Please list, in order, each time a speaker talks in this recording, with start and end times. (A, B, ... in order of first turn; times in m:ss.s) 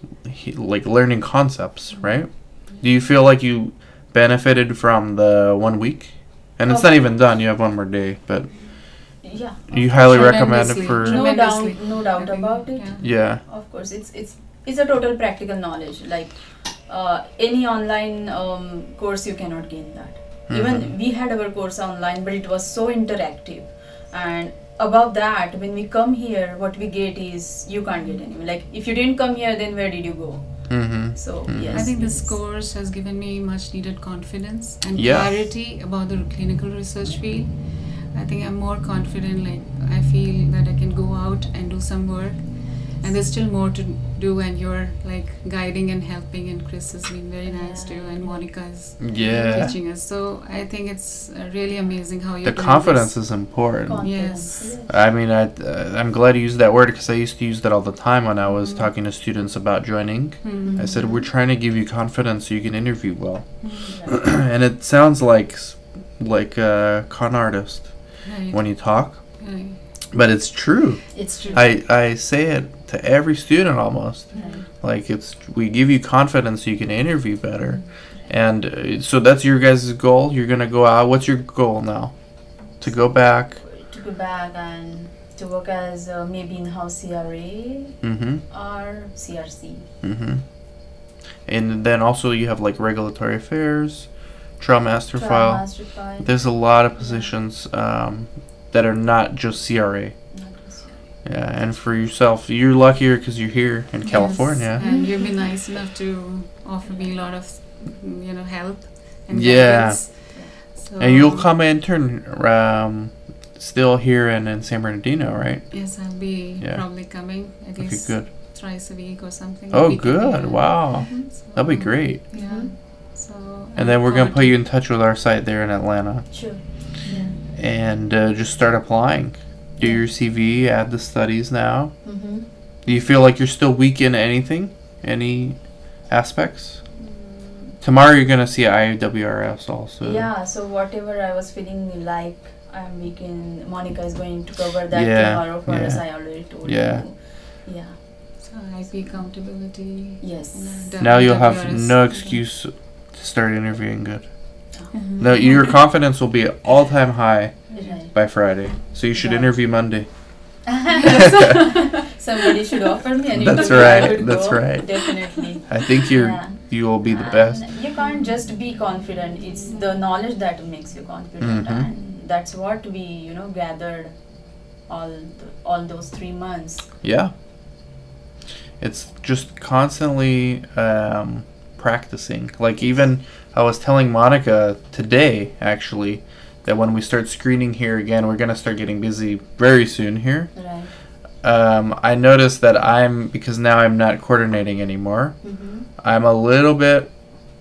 0:00.2-0:11.2 A
0:01.9-0:02.8 B
0:06.6-0:07.1 C
0:09.2-0:32.4 C
0:10.0-0:13.0 B
0:13.0-0:13.4 A
0:20.5-0:20.9 A
0:30.7-0:31.9 A
0:31.7-0:53.3 B
0:34.9-0:35.4 A
0:47.4-0:49.6 C
0:49.0-0:49.8 A
0:52.4-0:54.1 A
0:53.9-0:55.0 C
0:54.0-0:54.8 B
0:54.9-1:09.4 A
0:58.4-0:58.9 B
1:00.4-1:01.0 B
1:00.6-1:01.1 C
1:03.6-1:04.0 B
1:03.9-1:04.2 C
1:08.2-1:09.8 B
1:10.1-1:23.6 A
1:11.1-1:11.7 C
1:14.3-1:14.6 B
1:14.3-1:14.6 C
1:22.8-1:29.9 C
1:28.0-1:28.4 A
1:30.0-1:40.1 A
1:35.1-1:37.3 C
1:40.3-1:41.1 C
1:41.2-1:45.0 A
1:44.0-1:51.5 B
1:44.8-1:45.4 C
1:46.8-1:47.1 C
1:49.3-1:50.4 A
1:51.0-1:57.1 A
1:55.7-2:04.6 B
1:57.7-1:58.3 A
1:59.7-2:02.2 A
2:02.3-2:02.7 C
2:03.7-2:06.9 A
2:06.3-2:07.3 C
2:07.0-2:07.4 B
2:07.5-2:12.0 A
2:09.8-2:10.0 C
2:12.0-2:12.5 C
2:12.8-2:16.8 A
2:16.9-2:17.8 C
2:17.8-2:20.3 A
2:20.0-2:29.6 C
2:24.9-2:27.0 A
2:28.4-2:32.4 B
2:30.2-2:30.9 C
2:31.0-2:40.6 A
2:34.9-2:35.6 B
2:37.7-2:38.0 B
2:37.7-2:38.5 C
2:39.1-2:40.1 C
2:40.6-2:56.9 C
2:41.2-2:41.6 B
2:43.3-2:47.7 A
2:51.4-2:51.9 A
2:57.0-2:57.3 A
2:58.8-3:10.7 A
3:10.5-3:10.9 C
3:11.4-3:17.3 A
3:15.4-3:15.9 C